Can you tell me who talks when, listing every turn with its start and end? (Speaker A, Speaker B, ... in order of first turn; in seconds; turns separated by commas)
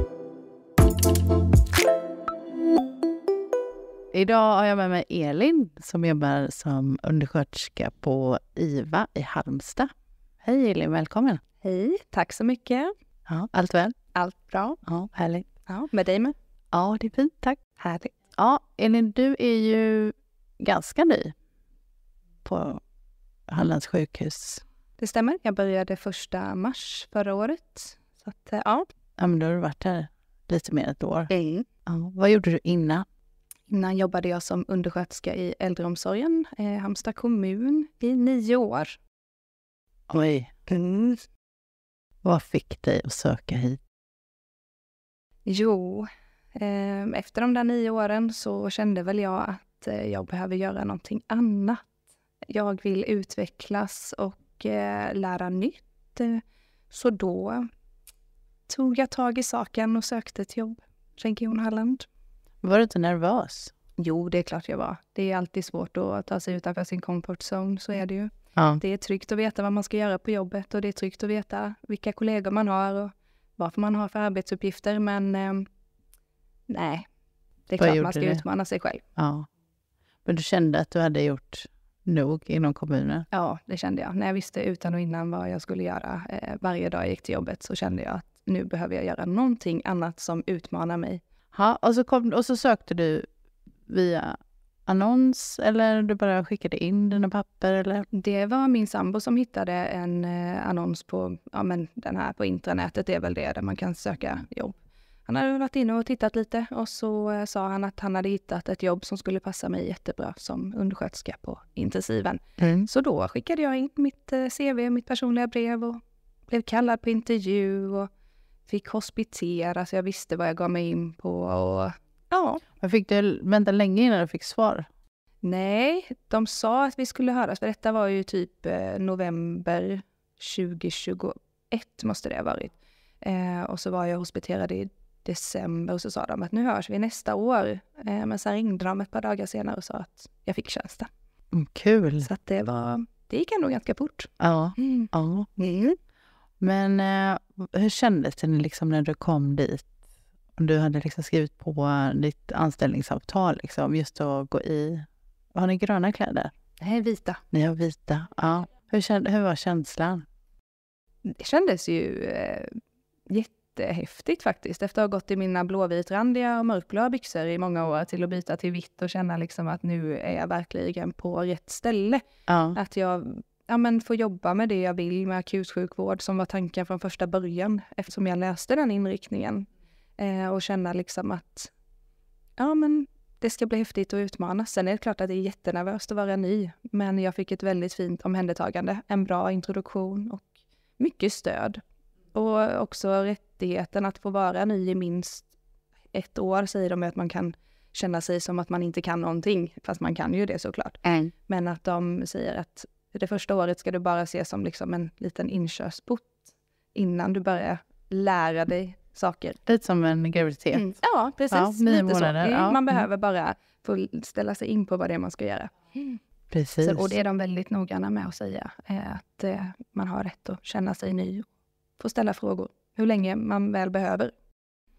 Speaker A: 4.1-9.9, Speaker A: 10.4-11.4, Speaker B: 11.6-12.9, Speaker A: 13.3-13.9, Speaker B: 14.1-14.8, Speaker A: 14.8-15.5, Speaker B: 15.7-16.4, Speaker A: 16.7-17.6, Speaker B: 17.8-18.1, Speaker A: 18.3-21.3, Speaker A: 22.4-22.8, Speaker A: 23.5-24.6, Speaker B: 25.0-28.9, Speaker A: 29.2-31.3, Speaker B: 31.3-31.7, Speaker A: 31.9-33.0, Speaker B: 33.7-39.0, Speaker A: 40.1-40.5, Speaker B: 40.7-41.2, Speaker A: 42.2-43.8, Speaker B: 45.4-51.9, Speaker B: 52.5-57.7, Speaker B: 58.7-62.1, Speaker A: 62.6-63.7, Speaker B: 64.0-75.7, Speaker B: 76.7-77.1, Speaker B: 77.7-79.0, Speaker A: 77.8-78.4, Speaker A: 79.2-79.5, Speaker A: 80.2-83.3, Speaker B: 83.3-91.2, Speaker A: 91.5-93.3, Speaker A: 93.9-98.1, Speaker B: 98.1-118.1, Speaker A: 112.6-112.9, Speaker B: 118.7-122.6, Speaker A: 122.8-124.9, Speaker B: 125.4-141.1, Speaker A: 141.5-142.3, Speaker B: 142.2-146.0, Speaker A: 144.4-145.5, Speaker A: 146.6-149.9, Speaker A: 150.6-156.5, Speaker B: 156.8-157.4, Speaker A: 157.5-160.2, Speaker B: 161.2-172.2, Speaker A: 172.5-172.8, Speaker B: 172.7-179.7, Speaker B: 180.2-181.7, Speaker B: 182.6-191.8, Speaker B: 192.3-195.5, Speaker B: 196.1-209.6, Speaker A: 201.0-201.3, Speaker A: 209.7-210.9, Speaker B: 210.7-216.2, Speaker A: 211.5-213.0, Speaker A: 216.5-217.2, Speaker B: 216.8-221.5, Speaker B: 222.0-224.3